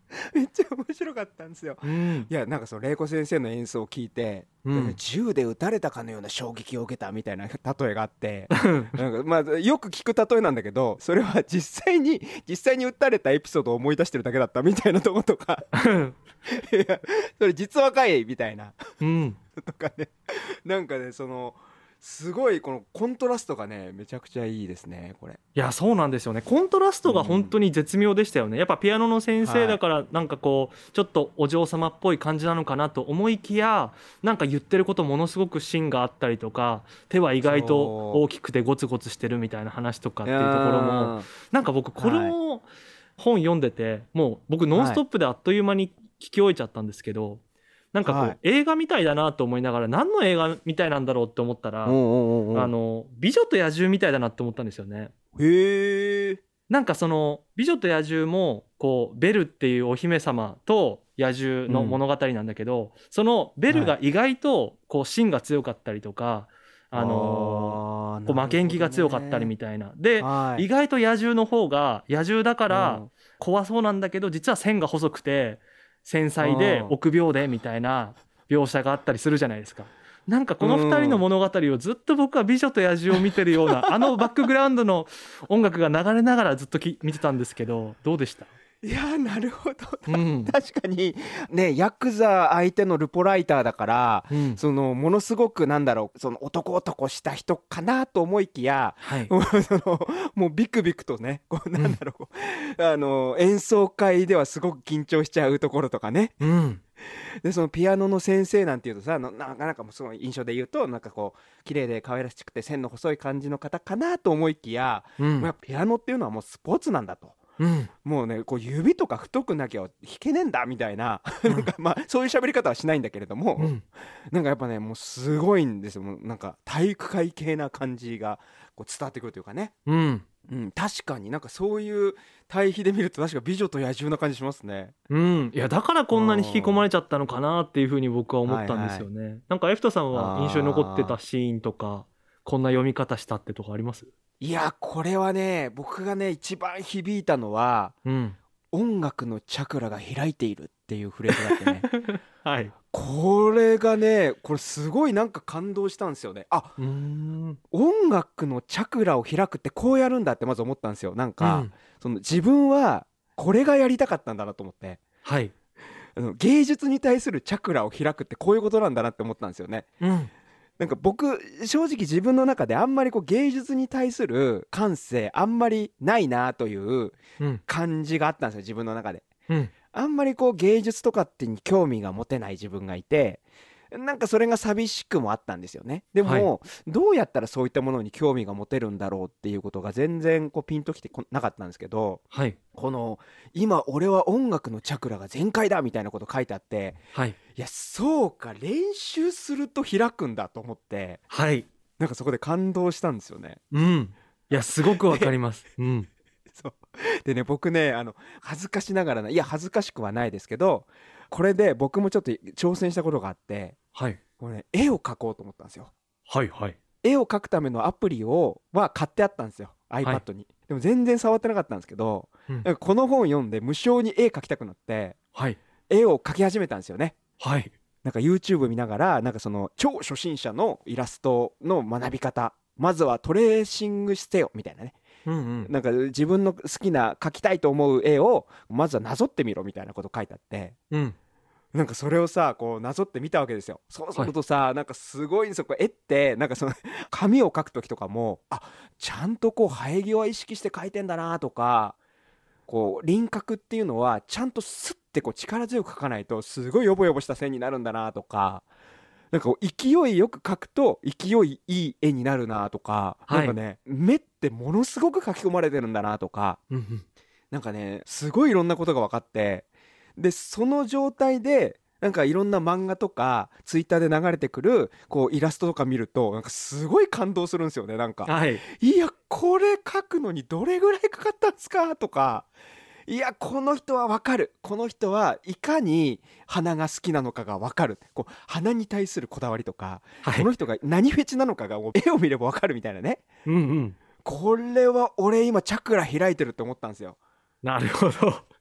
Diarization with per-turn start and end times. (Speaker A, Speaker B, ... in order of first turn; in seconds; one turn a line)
Speaker A: 0.1-15.7
Speaker B: 1.8-2.3
Speaker B: 4.7-5.0
Speaker B: 8.5-8.9
Speaker B: 15.7-16.1
Speaker A: 16.5-18.8
Speaker B: 19.0-19.4
Speaker A: 19.6-25.4
Speaker B: 25.6-47.4
Speaker A: 27.1-27.6
Speaker A: 29.4-29.8
Speaker A: 37.4-38.2
Speaker A: 40.2-41.3
Speaker A: 42.0-42.4
Speaker A: 44.7-45.0
Speaker B: 47.9-52.0
Speaker A: 48.0-48.4
Speaker A: 51.9-52.7
Speaker B: 52.5-55.1
Speaker A: 55.4-56.4
Speaker B: 56.7-88.5
Speaker A: 61.7-62.0
Speaker A: 63.7-64.0
Speaker A: 66.9-69.5
Speaker A: 70.2-70.7
Speaker A: 72.7-73.1
Speaker A: 76.4-77.0
Speaker A: 80.6-81.2
Speaker A: 83.1-84.1
Speaker A: 88.8-106.4
Speaker B: 90.1-90.5
Speaker B: 94.3-94.6
Speaker B: 99.0-99.3
Speaker B: 106.4-106.8
Speaker A: 107.0-117.4
Speaker B: 115.2-115.5
Speaker B: 117.6-117.9
Speaker A: 118.0-129.7
Speaker B: 123.6-123.8
Speaker B: 129.9-130.2
Speaker A: 130.5-134.9
Speaker B: 135.1-144.1
Speaker A: 136.1-136.8
Speaker A: 138.5-139.1
Speaker A: 140.1-141.2
Speaker A: 144.4-148.0
Speaker B: 148.1-148.4
Speaker A: 148.7-151.9
Speaker B: 151.3-152.7
Speaker A: 152.9-156.8
Speaker B: 156.8-157.6
Speaker A: 157.7-165.0
Speaker B: 161.4-161.7
Speaker B: 165.2-165.5
Speaker A: 166.2-169.9
Speaker B: 170.0-170.3
Speaker A: 170.8-179.3
Speaker A: 179.9-192.2
Speaker B: 186.2-186.5
Speaker B: 192.3-192.6
Speaker A: 192.7-197.0
Speaker A: 197.6-201.2
Speaker B: 201.3-201.7
Speaker A: 202.0-203.6
Speaker B: 203.7-206.1
Speaker A: 204.5-205.3
Speaker A: 206.5-213.8
Speaker B: 213.9-214.2
Speaker A: 214.4-215.9
Speaker B: 216.3-216.8
Speaker A: 217.0-225.2
Speaker A: 225.9-227.2
Speaker B: 227.4-227.7
Speaker A: 228.0-235.0
Speaker B: 235.3-235.7
Speaker A: 235.6-240.8
Speaker B: 240.9-241.2
Speaker A: 241.7-252.0
Speaker A: 252.7-258.7
Speaker A: 259.3-266.6
Speaker B: 263.3-263.6
Speaker B: 266.7-267.1
Speaker A: 267.5-282.5
Speaker B: 278.3-278.6
Speaker A: 283.1-293.3
Speaker B: 293.5-294.0
Speaker A: 294.2-297.2
Speaker B: 297.6-298.5